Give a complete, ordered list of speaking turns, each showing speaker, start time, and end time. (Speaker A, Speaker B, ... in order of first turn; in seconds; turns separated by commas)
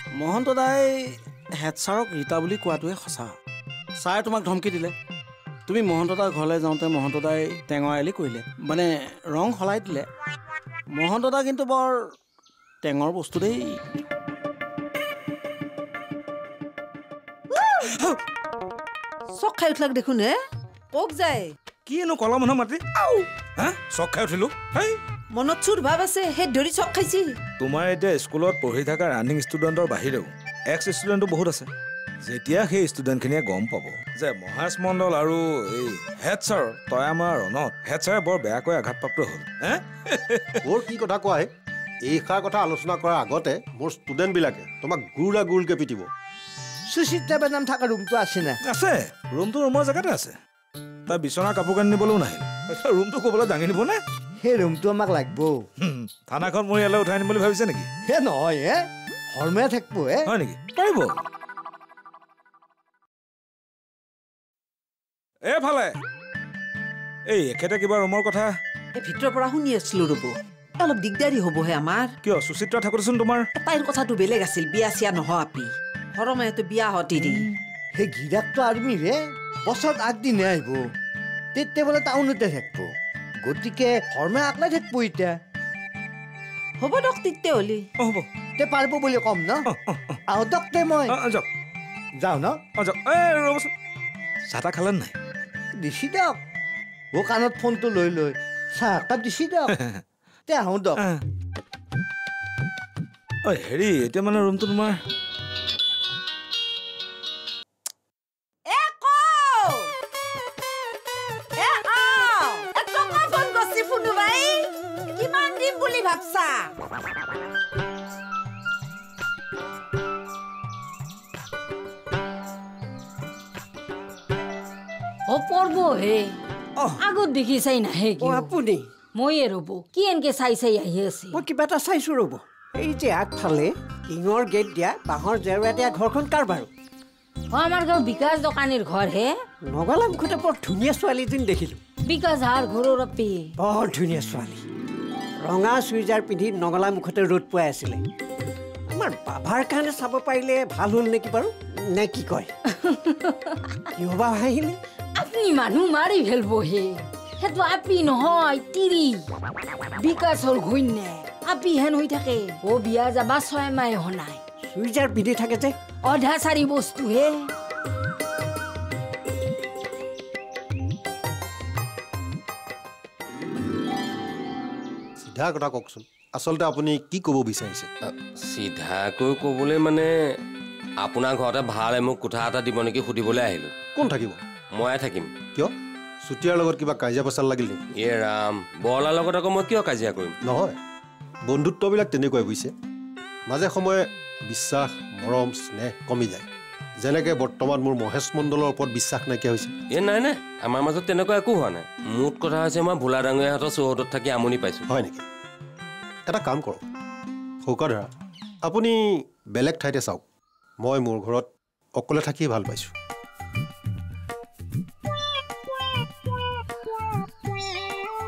Speaker A: 0.1-3.3, Speaker A: 4.0-4.9, Speaker A: 5.7-10.1, Speaker A: 10.9-12.1, Speaker A: 12.8-13.8, Speaker B: 17.6-17.9, Speaker C: 17.9-18.2, Speaker B: 19.3-20.4, Speaker B: 20.9-21.5, Speaker C: 21.9-22.8, Speaker B: 23.0-23.2, Speaker C: 23.6-25.0, Speaker B: 25.3-27.4, Speaker C: 27.6-31.7, Speaker C: 32.2-40.6, Speaker D: 40.6-41.5, Speaker D: 42.0-46.1, Speaker E: 46.9-48.6, Speaker C: 48.6-50.3, Speaker C: 51.1-54.0, Speaker E: 54.4-55.6, Speaker C: 55.8-57.9, Speaker E: 58.0-60.3, Speaker C: 60.2-61.2, Speaker C: 65.5-66.0, Speaker C: 67.3-68.5, Speaker B: 68.9-72.1, Speaker C: 72.2-73.5, Speaker B: 73.5-77.5, Speaker E: 77.9-80.8, Speaker E: 81.5-82.9, Speaker E: 83.4-85.3, Speaker B: 86.8-87.8, Speaker C: 88.0-88.2, Speaker E: 88.6-89.6, Speaker C: 89.7-90.2, Speaker E: 90.3-91.1, Speaker C: 91.1-91.5, Speaker E: 92.2-92.6, Speaker C: 92.8-93.7, Speaker C: 94.5-95.1, Speaker E: 95.8-96.4, Speaker E: 97.1-99.7, Speaker C: 99.7-100.0, Speaker E: 100.5-101.0, Speaker C: 101.0-101.2, Speaker C: 103.4-105.0, Speaker B: 108.7-109.9, Speaker B: 111.6-116.7, Speaker F: 125.3-126.3, Speaker F: 127.0-128.6, Speaker G: 128.2-128.9, Speaker F: 129.1-131.4, Speaker G: 131.3-136.7, Speaker F: 137.5-139.3, Speaker G: 139.7-141.8, Speaker F: 142.1-143.5, Speaker G: 143.6-144.6, Speaker G: 145.4-148.0, Speaker G: 148.9-152.5, Speaker F: 152.8-153.6, Speaker G: 154.0-154.8, Speaker F: 155.2-159.2, Speaker F: 160.0-164.4, Speaker G: 164.7-165.7, Speaker F: 166.0-167.4, Speaker D: 175.2-177.9, Speaker H: 178.0-180.1, Speaker H: 181.0-183.7, Speaker D: 183.9-184.4, Speaker H: 184.7-185.3, Speaker D: 185.5-187.8, Speaker H: 187.9-190.3, Speaker D: 190.4-190.8, Speaker D: 191.4-192.7, Speaker D: 193.5-196.4, Speaker D: 197.0-199.7, Speaker H: 199.9-204.9, Speaker D: 204.9-205.2, Speaker D: 206.2-206.8, Speaker D: 207.6-208.1, Speaker D: 208.6-210.2, Speaker D: 210.8-212.9